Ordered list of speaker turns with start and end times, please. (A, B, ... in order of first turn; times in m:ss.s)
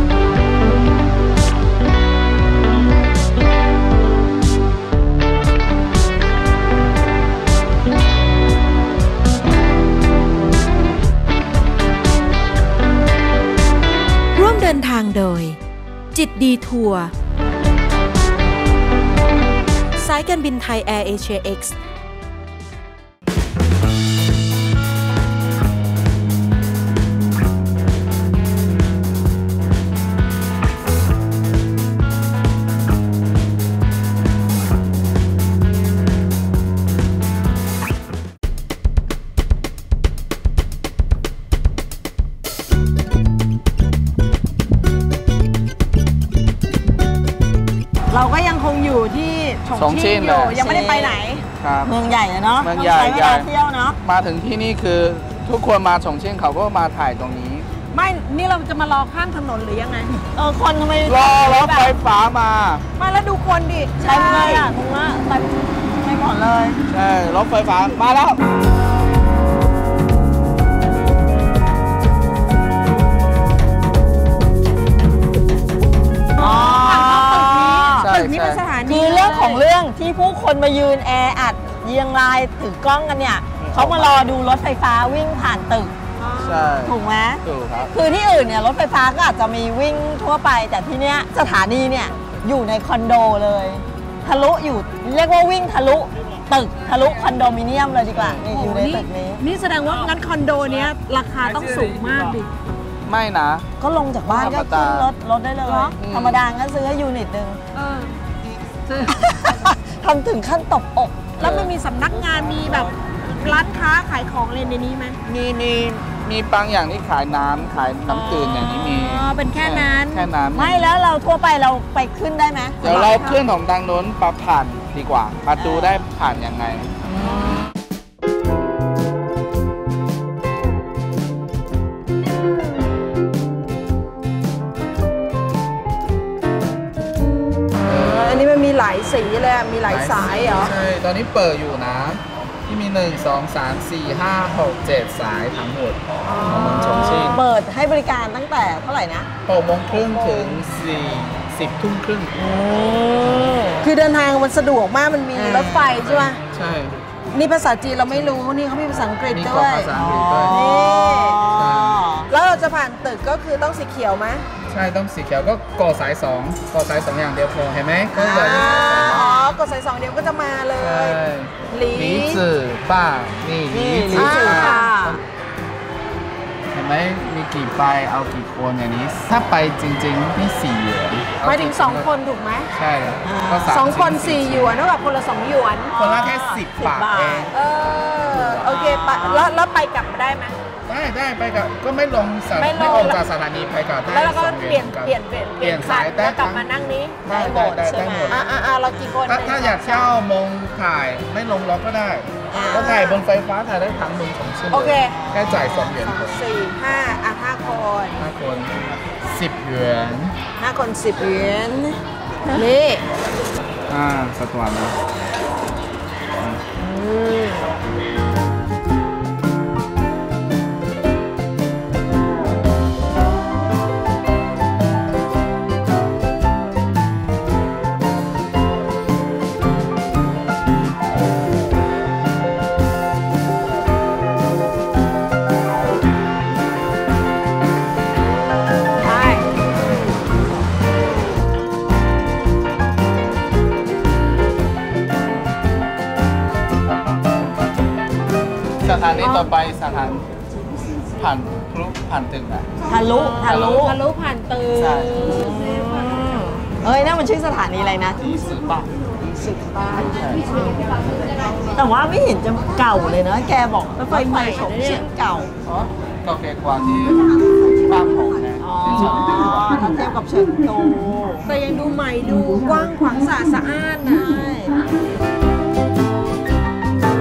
0:14.4-0:15.6 A
0:16.1-0:17.1 A
0:20.0-0:21.8 A
0:48.1-0:51.4 B
0:49.7-0:50.6 C
0:50.5-0:51.2 D
0:51.6-0:51.9 C
0:51.8-0:54.0 D
0:52.6-0:53.5 C
0:54.0-0:57.7 C
0:57.9-1:00.2 B
1:00.2-1:02.0 D
1:01.0-1:02.8 C
1:03.0-1:04.7 B
1:04.0-1:06.8 D
1:06.9-1:08.4 C
1:16.4-1:18.1 D
1:16.4-1:19.6 B
1:18.0-1:18.6 C
1:18.8-1:25.9 D
1:23.6-1:24.3 C
1:26.2-1:26.7 B
1:26.4-1:27.9 C
1:26.8-1:39.4 D
1:38.2-1:38.4 C
1:38.4-1:42.5 B
1:41.5-1:42.1 C
1:43.1-1:43.7 C
1:43.8-1:47.6 D
1:44.3-1:45.1 C
1:45.7-1:46.0 B
1:46.0-1:46.4 C
1:47.7-1:48.1 B
1:48.9-1:49.2 B
1:49.2-1:51.4 D
1:51.4-1:55.2 B
1:51.4-1:51.7 C
1:52.3-1:52.9 C
1:55.2-2:00.8 C
1:58.1-1:58.9 D
1:58.7-2:00.3 B
2:00.5-2:03.4 D
2:02.8-2:06.9 C
2:05.6-2:06.0 D
2:17.9-2:18.5 C
2:17.9-2:20.7 B
2:19.9-2:27.4 C
2:26.3-2:27.4 B
2:26.3-2:29.3 D
2:29.5-2:32.3 C
2:29.9-2:30.6 D
2:32.3-2:33.9 D
2:33.8-2:36.4 B
2:35.3-2:35.9 D
2:36.0-2:37.0 C
2:37.3-2:39.9 B
2:38.1-2:38.4 C
2:39.3-2:40.6 C
2:39.9-2:42.3 D
2:40.5-2:41.4 B
2:41.5-2:42.0 C
2:42.3-2:44.5 B
2:44.7-2:49.3 C
2:48.1-2:49.5 D
2:48.2-2:52.4 B
2:50.8-2:55.2 C
2:53.7-2:55.1 D
2:54.1-2:55.2 B
2:56.7-3:02.1 C
3:01.4-3:02.7 B
3:02.7-3:04.8 C
3:03.2-3:03.8 D
3:03.7-3:05.9 B
3:05.9-3:07.5 D
3:05.9-3:07.6 C
3:07.5-3:10.6 B
3:08.1-3:08.7 C
3:08.6-3:09.5 D
3:10.9-3:16.7 C
3:12.6-3:13.2 B
3:14.1-3:17.2 B
3:17.2-3:18.4 D
3:17.3-3:18.4 C
3:18.3-3:20.1 B
3:19.3-3:26.4 C
3:22.5-3:23.2 D
3:24.7-3:25.2 B
3:25.1-3:25.9 D
3:25.7-3:28.2 B
3:28.2-3:30.4 C
3:30.6-3:33.0 B
3:33.9-3:35.0 C
3:36.8-3:37.6 B
3:59.0-3:59.4 D
4:08.8-4:10.3 C
4:11.2-4:12.7 C
4:12.8-4:14.0 D
4:13.1-4:15.5 B
4:13.4-4:13.9 C
4:14.8-4:15.3 C
4:15.2-4:18.2 D
4:18.2-4:20.5 C
4:21.8-4:25.5 D
4:24.0-4:25.0 B
4:25.6-4:29.8 C
4:28.6-4:31.5 D
4:31.4-4:34.4 B
4:34.2-4:34.7 D